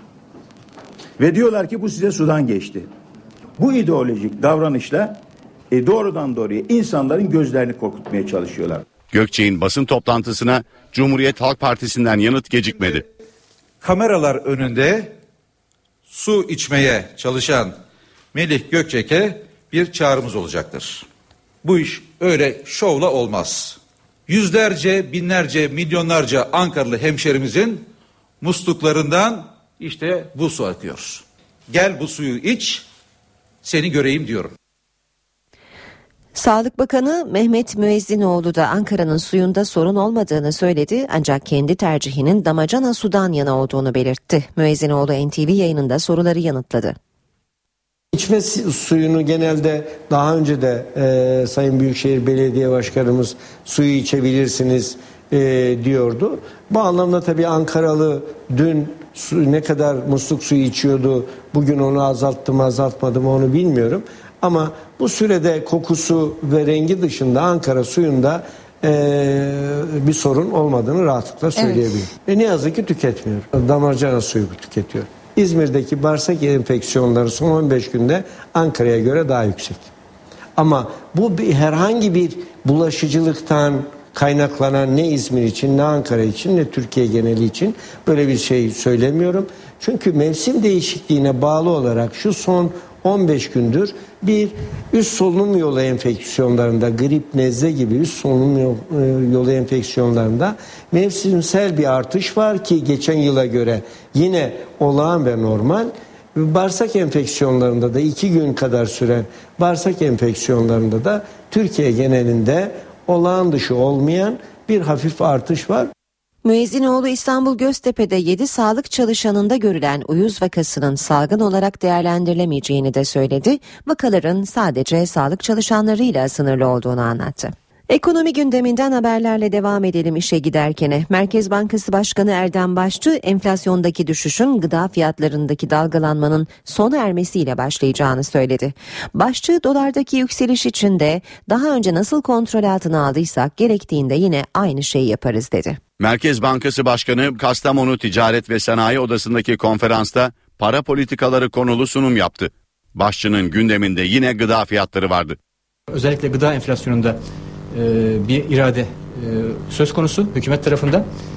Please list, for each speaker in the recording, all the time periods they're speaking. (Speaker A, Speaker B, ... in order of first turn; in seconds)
Speaker A: 1.2-2.9, 3.6-8.8
Speaker B: 9.1-13.0, 146.0-155.4
Speaker C: 13.8-15.2, 16.1-17.8, 18.3-21.1, 21.6-27.9, 28.4-32.9, 33.6-34.5
Speaker D: 36.4-47.0, 116.4-145.8
Speaker E: 48.1-79.9, 80.6-115.9
Speaker F: 155.9-157.2, 157.7-161.1